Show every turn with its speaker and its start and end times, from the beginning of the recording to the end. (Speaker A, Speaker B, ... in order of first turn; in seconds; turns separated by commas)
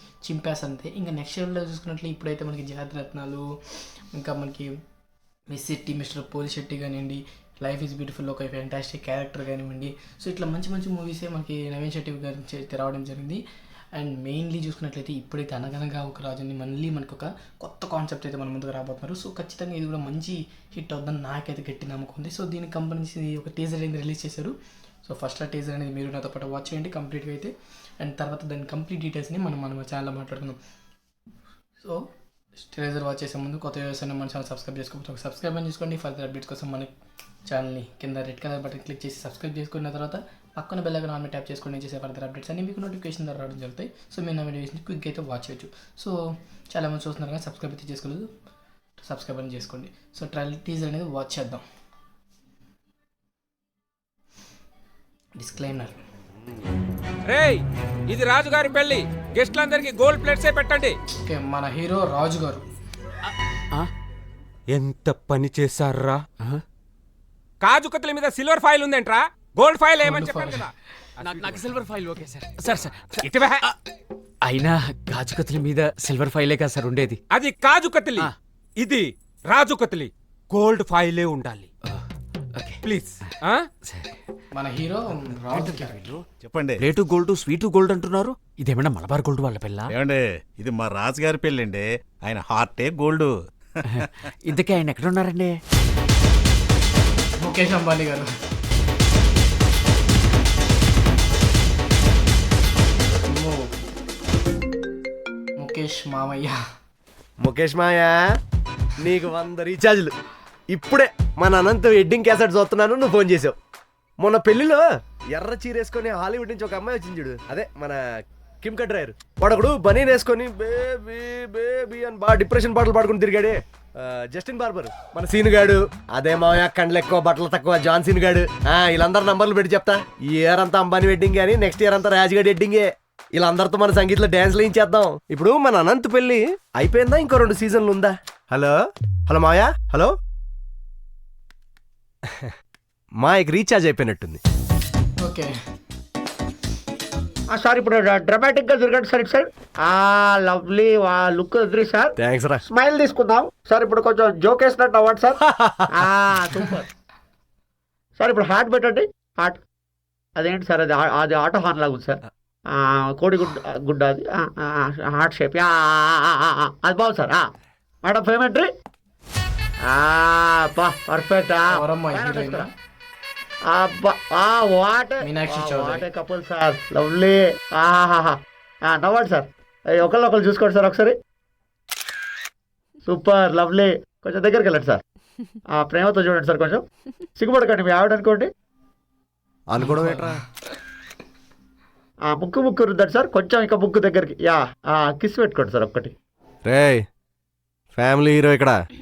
Speaker A: 0.2-4.7, Speaker A: 5.5-13.4, Speaker A: 13.9-30.6, Speaker A: 31.8-32.1, Speaker A: 32.6-36.9, Speaker A: 37.5-46.2, Speaker A: 46.7-48.3, Speaker A: 49.0-51.6, Speaker A: 55.4-56.0, Speaker B: 57.3-61.0, Speaker A: 61.2-62.6, Speaker B: 64.7-66.2, Speaker B: 67.6-71.7, Speaker A: 70.0-70.7, Speaker C: 71.2-73.7, Speaker B: 73.2-73.7, Speaker C: 74.4-77.2, Speaker B: 77.3-81.7, Speaker C: 81.8-82.8, Speaker B: 82.8-83.7, Speaker C: 83.8-84.1, Speaker A: 84.5-86.1, Speaker C: 85.5-86.3, Speaker D: 86.4-86.9, Speaker C: 86.8-89.9, Speaker D: 89.9-93.3, Speaker C: 93.9-95.6, Speaker A: 97.4-98.3, Speaker A: 103.3-103.7, Speaker A: 105.6-106.6, Speaker E: 107.4-108.2, Speaker E: 109.0-110.1, Speaker E: 110.7-113.5, Speaker E: 114.2-118.0, Speaker E: 118.6-140.1, Speaker E: 142.3-142.5, Speaker E: 143.2-144.4, Speaker A: 145.2-145.6, Speaker F: 147.5-152.2, Speaker E: 152.2-152.6, Speaker F: 152.7-156.9, Speaker E: 155.4-155.9, Speaker F: 158.2-159.6, Speaker F: 160.4-168.7, Speaker F: 169.8-172.7, Speaker A: 171.7-172.7, Speaker F: 173.7-181.2, Speaker A: 175.2-176.1, Speaker F: 183.1-185.0, Speaker F: 185.7-186.8, Speaker F: 187.4-188.5, Speaker E: 189.7-190.4, Speaker A: 189.8-190.3, Speaker F: 192.2-196.1, Speaker E: 196.7-197.0, Speaker E: 197.9-198.8